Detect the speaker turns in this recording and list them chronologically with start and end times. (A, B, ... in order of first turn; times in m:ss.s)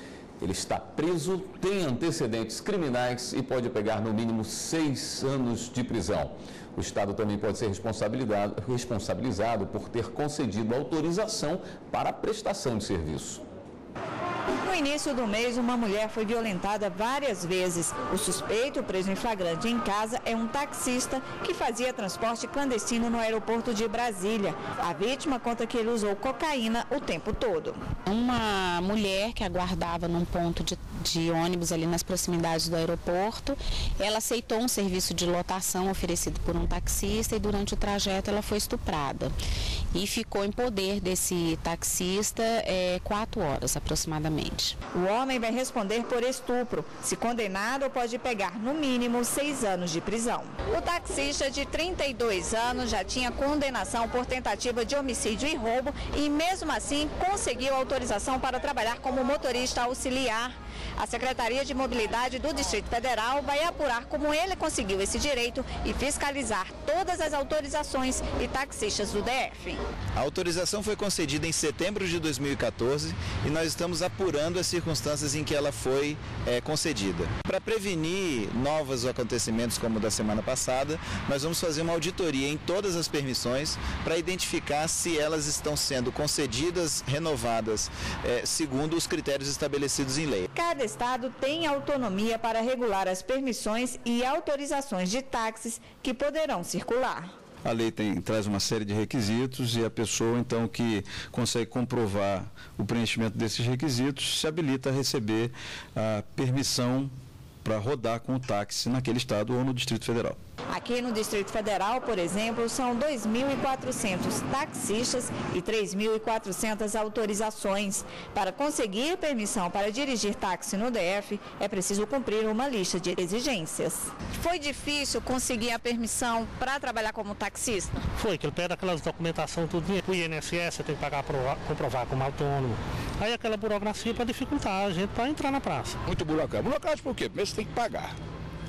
0:00.4-0:13.4 A
0:14.6-0:27.8 B
0:28.1-0:39.3 C
0:39.9-0:44.8 C
0:44.9-1:09.8 B
1:10.2-1:30.5 D
1:30.5-1:37.3 B
1:37.6-1:47.1 E
1:47.6-1:50.4 E
1:50.7-2:08.0 B
2:08.2-2:16.0 F
2:16.1-2:18.1 G